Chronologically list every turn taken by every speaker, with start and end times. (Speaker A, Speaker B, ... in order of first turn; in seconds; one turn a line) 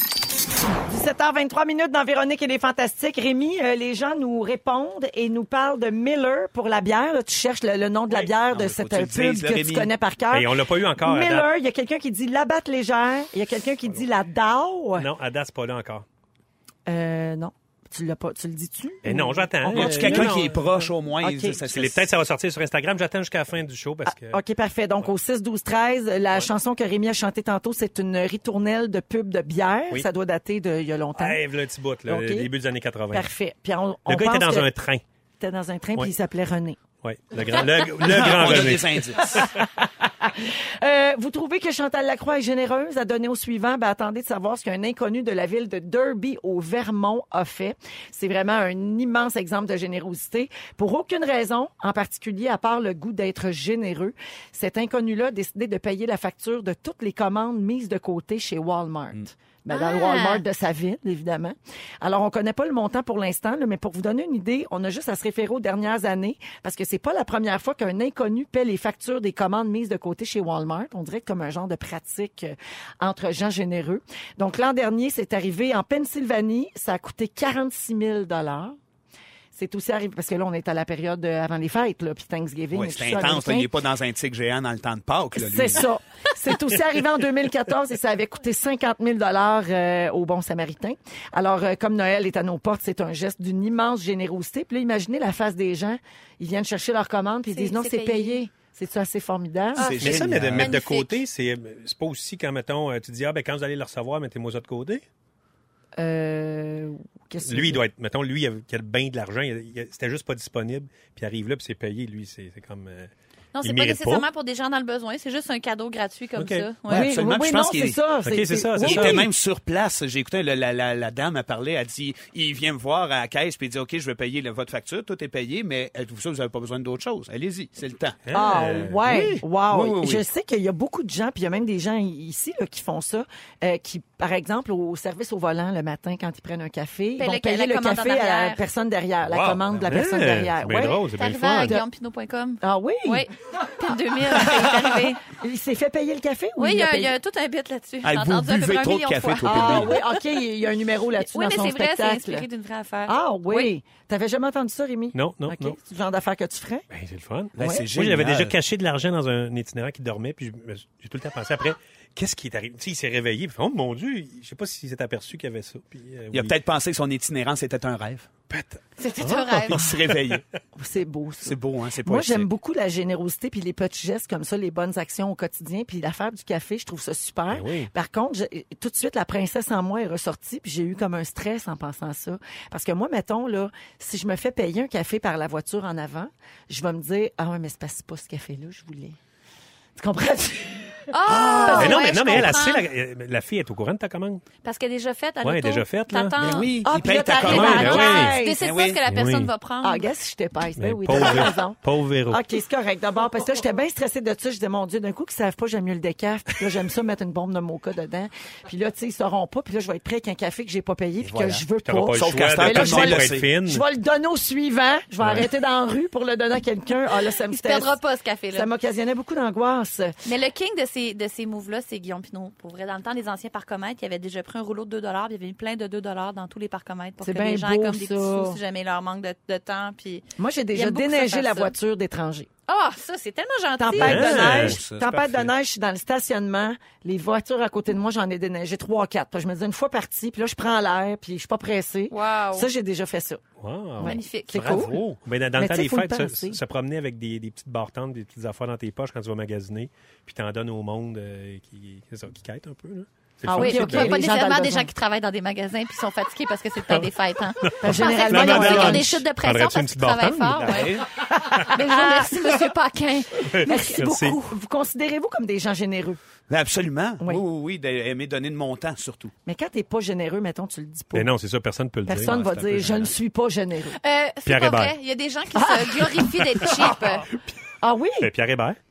Speaker A: 0.8-15.1
Speaker B: 8.1-9.9
Speaker C: 10.3-11.5
Speaker C: 14.9-16.1
Speaker A: 16.9-20.4
Speaker C: 19.0-20.6
Speaker B: 19.7-22.0
Speaker A: 21.2-21.6
Speaker C: 21.6-24.4
Speaker A: 24.1-31.4
Speaker C: 31.1-33.3
Speaker A: 32.1-32.5
Speaker A: 33.1-34.7
Speaker C: 34.1-35.0
Speaker A: 35.4-36.8
Speaker C: 37.0-39.5
Speaker B: 38.0-39.4
Speaker A: 39.2-78.8
Speaker D: 59.7-60.4
Speaker A: 79.5-83.7
Speaker B: 82.7-85.9
Speaker A: 85.3-100.3
Speaker D: 97.5-98.4
Speaker B: 99.8-100.7
Speaker C: 100.0-105.0
Speaker D: 100.5-101.2
Speaker A: 106.0-107.8
Speaker C: 107.4-113.1
Speaker D: 113.5-117.2
Speaker C: 113.6-114.2
Speaker C: 116.3-116.7
Speaker B: 116.9-118.0
Speaker A: 116.9-119.3
Speaker C: 118.2-119.3
Speaker B: 118.8-130.2
Speaker C: 128.2-129.3
Speaker A: 128.3-141.0
Speaker D: 137.2-138.6
Speaker C: 139.2-141.8
Speaker D: 141.1-145.2
Speaker A: 142.6-143.2
Speaker A: 144.3-147.1
Speaker D: 146.6-150.2
Speaker B: 148.0-150.0
Speaker A: 149.4-152.5
Speaker D: 151.2-153.7
Speaker A: 153.1-156.9
Speaker C: 155.1-155.8
Speaker C: 156.9-166.5
Speaker B: 157.6-158.5
Speaker A: 157.6-157.8
Speaker B: 166.3-168.3
Speaker C: 168.5-170.4
Speaker D: 169.0-169.8
Speaker B: 169.7-170.4
Speaker A: 170.8-189.2
Speaker B: 171.4-172.5
Speaker C: 177.5-177.9
Speaker A: 190.0-192.0
Speaker D: 191.1-192.8
Speaker B: 191.3-191.9
Speaker C: 191.7-194.4
Speaker D: 194.6-196.7
Speaker C: 195.4-196.4
Speaker B: 196.4-199.0
Speaker A: 196.8-198.6
Speaker C: 197.4-198.4
Speaker D: 197.5-200.1
Speaker C: 199.0-199.5
Speaker A: 199.8-201.8
Speaker C: 200.8-202.4
Speaker A: 202.3-217.9
Speaker B: 211.2-213.5
Speaker C: 211.8-213.8
Speaker C: 215.2-215.5
Speaker D: 217.5-218.7
Speaker A: 218.5-220.1
Speaker D: 220.2-231.7
Speaker A: 227.2-228.6
Speaker A: 230.4-232.5
Speaker D: 232.7-234.7
Speaker A: 233.8-243.4
Speaker C: 233.9-234.8
Speaker B: 234.0-235.5
Speaker D: 242.1-242.7
Speaker C: 243.6-254.2
Speaker A: 244.0-246.6
Speaker D: 244.0-244.9
Speaker A: 253.4-254.9
Speaker D: 253.6-261.0
Speaker C: 257.6-261.1
Speaker A: 257.8-259.2
Speaker B: 260.6-261.0
Speaker A: 261.4-262.6
Speaker D: 261.6-264.4
Speaker C: 263.5-264.4
Speaker A: 263.7-266.2
Speaker B: 266.5-269.3
Speaker A: 269.4-271.3
Speaker C: 271.1-272.7
Speaker A: 272.1-274.0
Speaker B: 272.2-273.1
Speaker D: 274.0-277.3
Speaker C: 274.4-274.9
Speaker A: 275.6-277.0
Speaker A: 277.8-278.3
Speaker C: 278.2-278.8